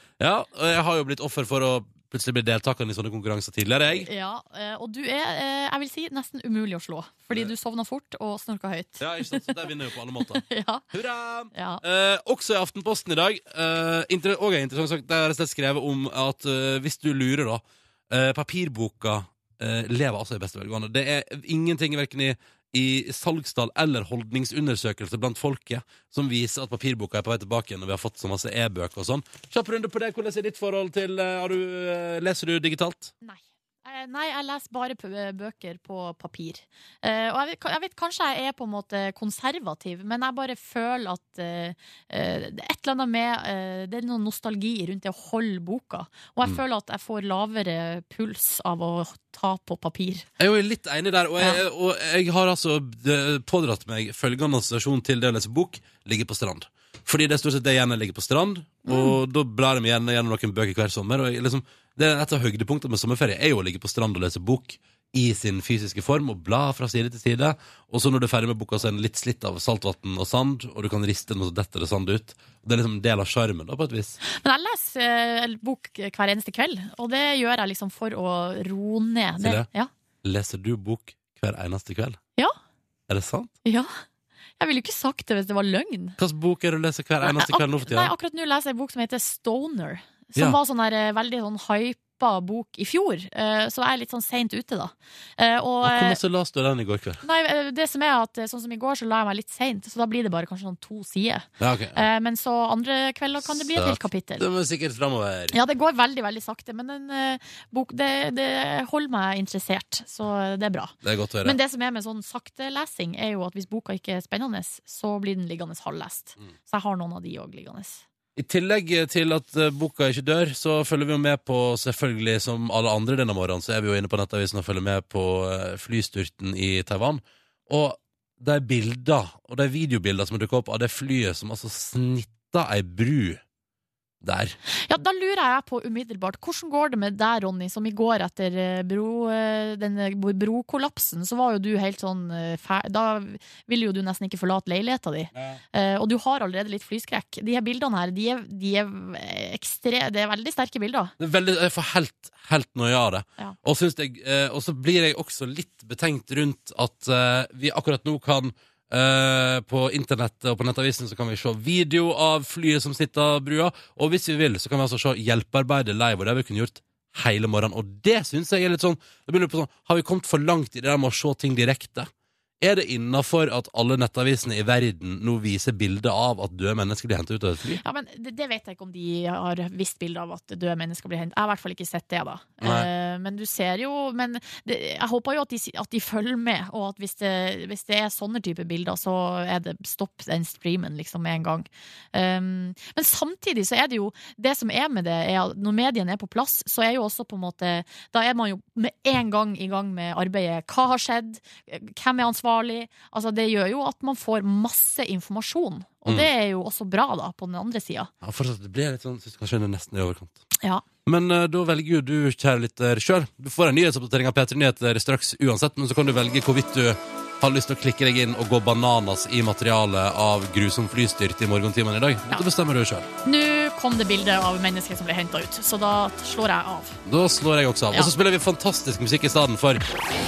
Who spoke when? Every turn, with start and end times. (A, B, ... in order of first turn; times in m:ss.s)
0:00.2-0:04.1 A
0:03.9-0:09.6 B
0:09.0-0:33.1 A
0:10.3-0:10.8 B
0:11.5-0:11.8 B
0:33.2-0:50.3 B
0:50.4-1:14.2 A
0:58.8-0:59.2 B
1:14.2-1:19.9 B
1:19.4-1:19.7 A
1:20.2-1:22.2 A
1:23.1-1:23.5 A
1:23.6-1:23.9 B
1:24.6-1:26.2 B
1:26.2-1:28.1 A
1:27.2-1:36.2 B
1:35.8-1:37.2 A
1:37.2-1:44.4 B
1:41.6-1:42.0 A
1:43.4-1:45.6 A
1:45.5-1:58.0 B
1:51.0-1:51.6 A
1:58.4-2:13.4 A
2:14.2-2:14.6 A
2:14.9-2:31.1 B
2:31.2-2:52.1 A
2:52.6-2:57.8 A
2:57.8-3:28.1 B
3:02.6-3:02.9 A
3:28.2-3:30.4 A
3:31.0-3:43.1 A
3:43.2-3:47.0 B
3:47.0-3:49.8 A